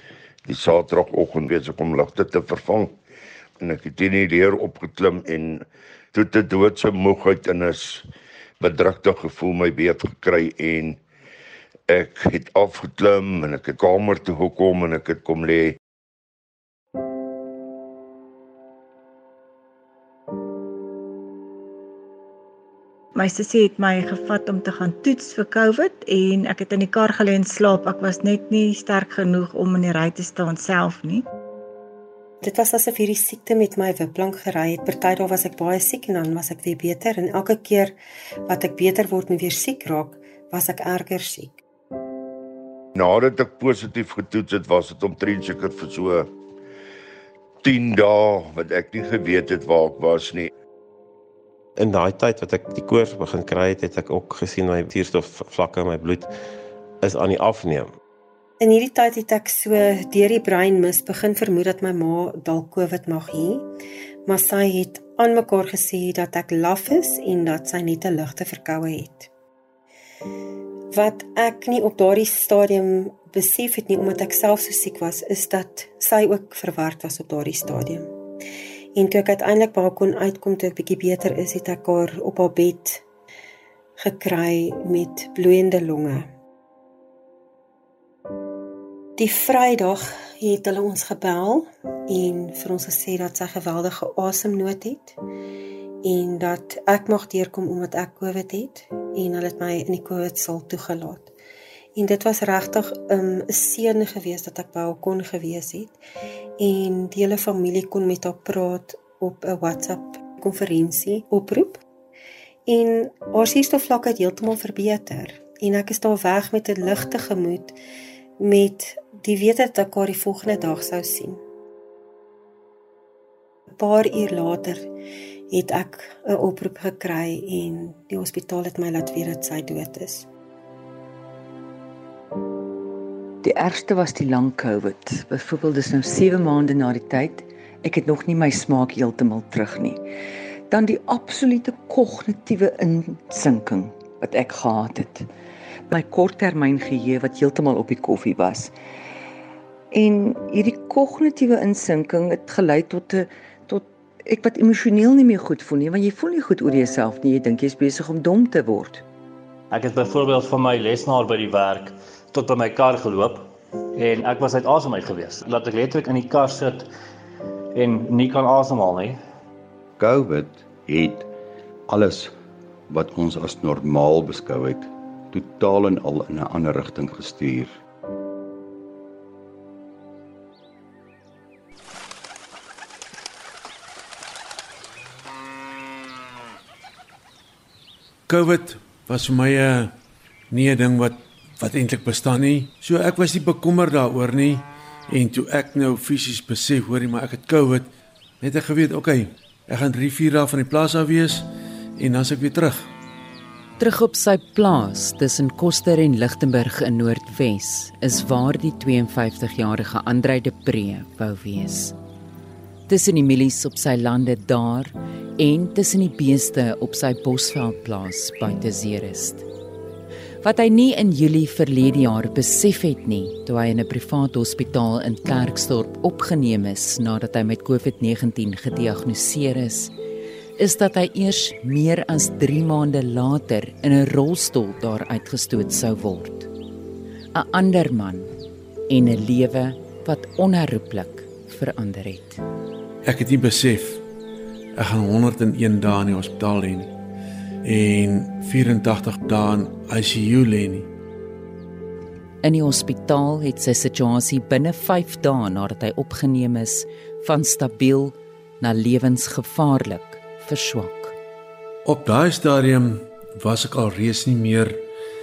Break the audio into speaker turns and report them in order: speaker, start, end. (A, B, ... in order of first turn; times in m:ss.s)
0:00.4-0:03.0 A
0:03.6-0:08.0 A
0:08.6-0:11.0 A
0:11.9-0:15.8 A
0:23.1-0:31.2 B
0:32.4-0:38.0 C
0:38.5-0:41.6 C
0:43.0-0:46.3 A
0:47.6-0:50.5 A
0:51.8-0:56.3 D
0:57.0-0:57.9 D
0:58.6-1:03.7 C
1:04.2-1:09.3 C
1:10.9-1:18.1 C
1:18.9-1:23.0 C
1:24.0-1:26.3 C
1:29.2-1:35.2 C
1:36.0-1:41.3 C
1:42.0-1:46.0 C
1:46.6-1:51.8 C
1:52.7-1:57.7 C
1:58.4-2:01.4 C
2:03.7-2:04.9 C
2:05.5-2:10.3 C
2:13.4-2:20.0 E
2:20.7-2:25.3 E
2:25.9-2:28.7 E
2:29.9-2:39.0 E
2:39.7-2:46.9 F
2:47.7-2:49.2 F
2:50.0-2:51.3 G
2:51.9-2:52.3 G
2:52.9-2:57.8 G
3:08.3-3:09.9 H
3:10.5-3:17.9 H
3:18.4-3:22.9 H
3:23.8-3:32.0 I
3:32.9-3:39.5 I
3:40.4-3:49.9 I
3:50.6-3:56.5 I
3:57.3-3:58.3 I
3:58.9-4:02.4 I
4:03.0-4:04.0 H
4:04.7-4:06.9 H
4:07.6-4:10.9 H
4:12.4-4:21.2 I
4:21.8-4:24.8 H